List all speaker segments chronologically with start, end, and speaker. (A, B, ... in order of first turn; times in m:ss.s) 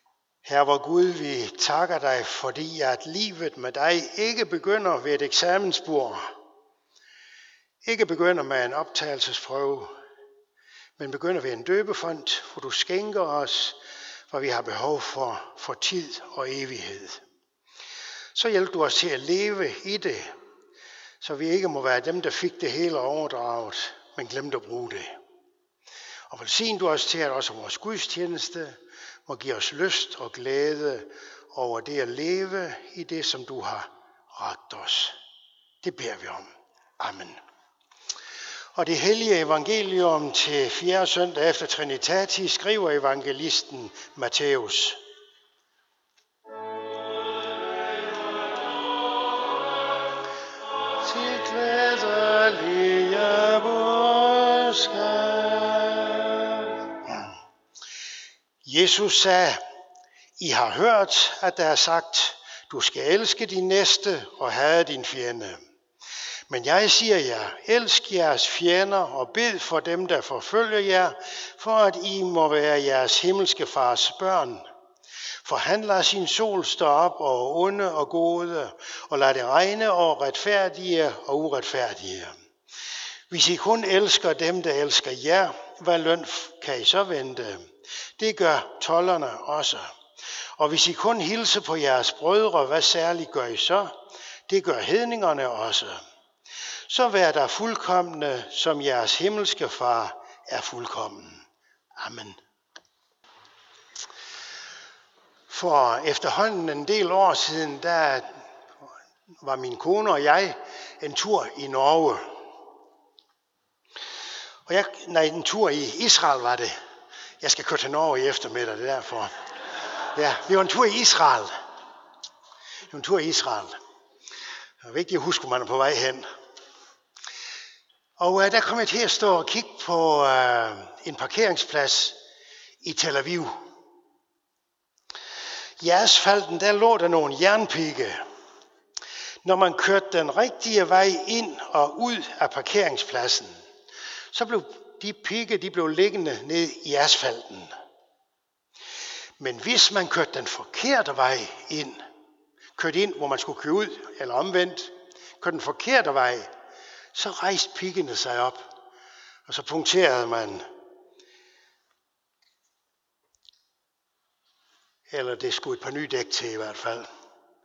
0:00.4-0:06.2 A
0:07.8-0:09.9 A
0:11.0-0:13.8 A
0:14.3-0:17.2 A
0:18.3-0:20.3 A
0:21.2-0:25.2 A
0:26.3-0:35.1 A
0:35.8-0:37.4 A
0:38.8-0:45.0 A
0:51.0-0:56.7 A
0:58.6-0:59.6 A
1:00.4-1:05.6 A
1:06.5-1:14.6 A
1:15.4-1:22.3 A
1:23.3-1:27.6 A
1:28.2-1:29.9 A
1:30.6-1:34.0 A
1:34.5-1:36.0 A
1:36.9-1:41.4 A
1:42.0-1:42.4 A
1:45.5-1:48.3 A
1:49.4-1:52.2 A
1:54.7-1:56.7 A
1:57.4-1:59.3 A
2:00.1-2:01.5 A
2:02.9-2:03.8 A
2:04.8-2:06.3 A
2:08.2-2:12.2 A
2:12.8-2:13.5 A
2:15.8-2:18.2 A
2:19.4-2:23.6 A
2:24.3-2:27.7 A
2:29.4-2:32.0 A
2:32.8-2:36.5 A
2:37.1-2:38.7 A
2:39.5-2:40.6 A
2:45.1-2:47.1 A